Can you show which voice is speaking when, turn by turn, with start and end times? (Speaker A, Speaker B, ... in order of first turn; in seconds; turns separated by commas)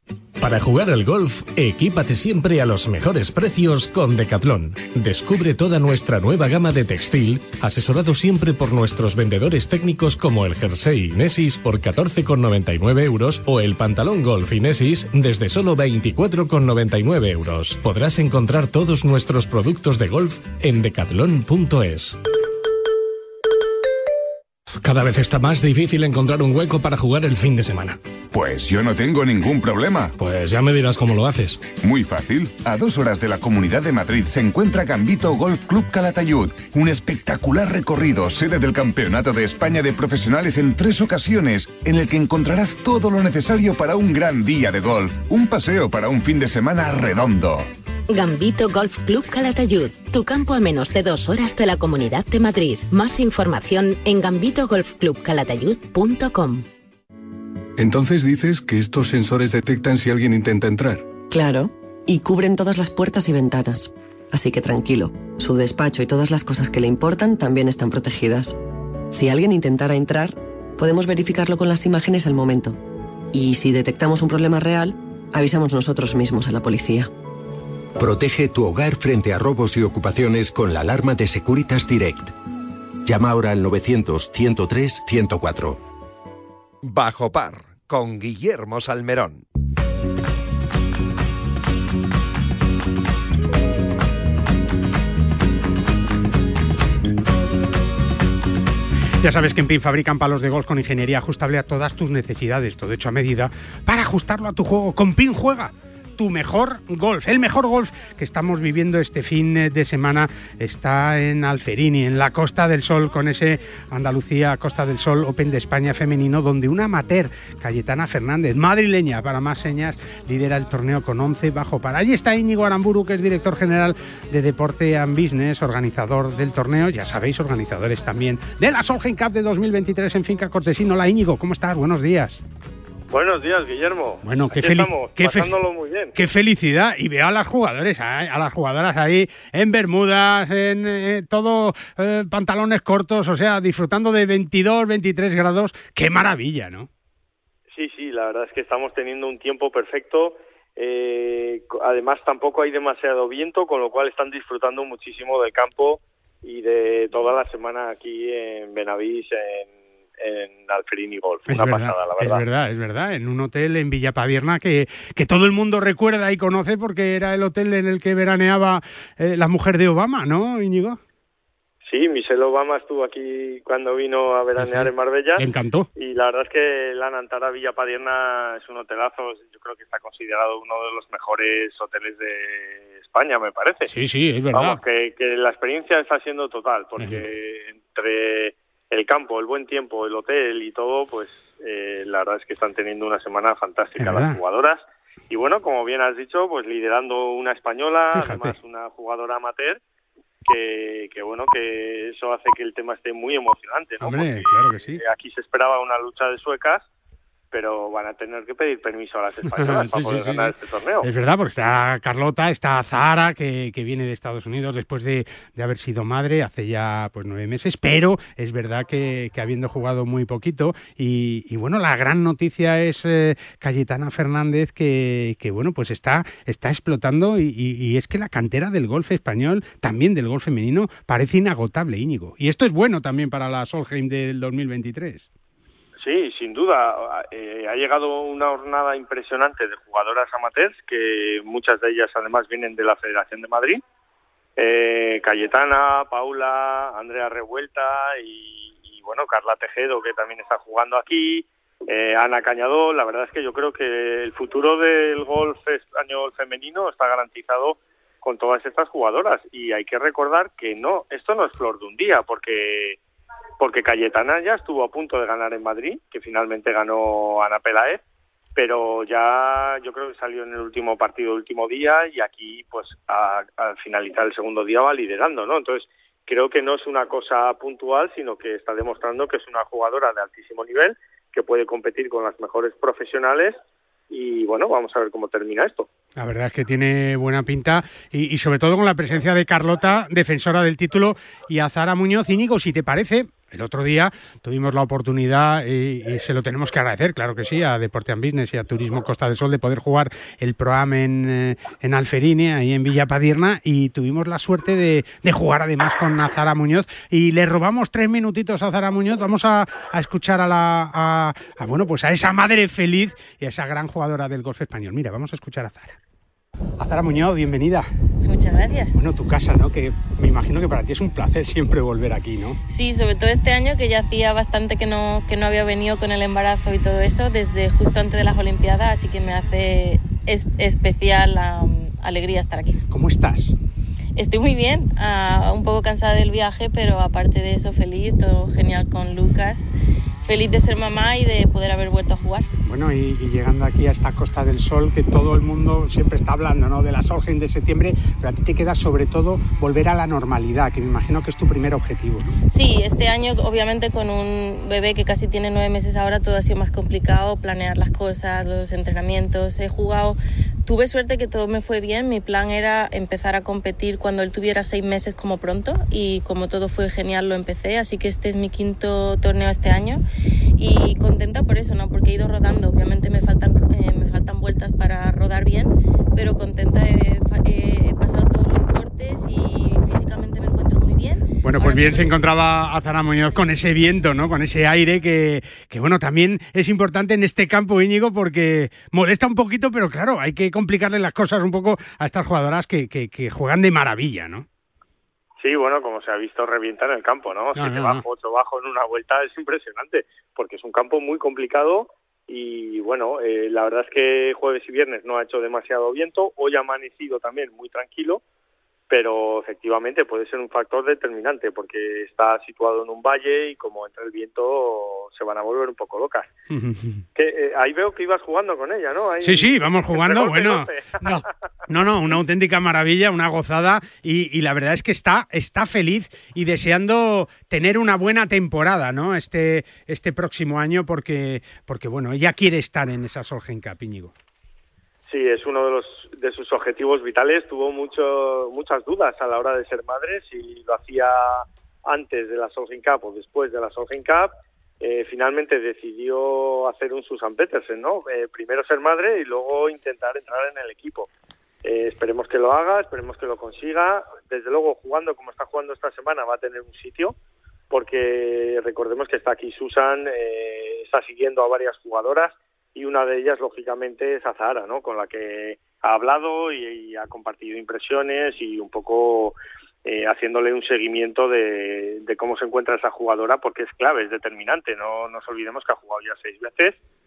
Speaker A: 0.4-22.2, Speaker A: 24.8-28.0, Speaker B: 28.3-30.1, Speaker A: 30.2-31.6, Speaker B: 31.8-47.7, Speaker C: 48.1-56.7, Speaker D: 57.8-61.1, Speaker E: 61.3-68.6, Speaker E: 69.1-72.8, Speaker E: 73.3-77.1, Speaker F: 78.0-82.3, Speaker F: 83.0-85.8, Speaker G: 86.8-89.5, Speaker H: 99.2-132.4, Speaker I: 133.1-136.2, Speaker H: 134.2-135.6, Speaker H: 136.2-146.9, Speaker I: 147.7-162.4, Speaker H: 161.5-171.0, Speaker I: 171.8-183.9, Speaker H: 174.6-175.9, Speaker H: 183.9-184.8, Speaker I: 184.5-199.8, Speaker H: 187.0-187.2, Speaker H: 194.0-194.4, Speaker H: 198.1-198.6, Speaker I: 200.4-206.9, Speaker H: 204.0-205.0, Speaker I: 207.5-211.1, Speaker H: 209.5-235.3, Speaker I: 236.0-243.8, Speaker I: 244.6-263.0, Speaker I: 263.6-268.0, Speaker I: 268.6-283.6, Speaker I: 284.1-285.9, Speaker H: 286.2-316.0, Speaker H: 316.8-317.9, Speaker J: 318.2-319.0, Speaker H: 318.9-322.6, Speaker J: 322.7-332.8, Speaker H: 332.9-333.5, Speaker J: 334.2-339.7, Speaker J: 340.2-342.5, Speaker H: 342.6-352.4, Speaker J: 352.5-370.0, Speaker J: 370.6-382.2, Speaker H: 381.4-394.5, Speaker I: 395.4-408.2, Speaker H: 397.6-398.0, Speaker I: 408.9-416.3, Speaker H: 416.5-417.1, Speaker I: 417.1-421.2, Speaker H: 419.2-434.1, Speaker I: 435.1-451.1, Speaker I: 451.6-457.1, Speaker I: 457.7-476.8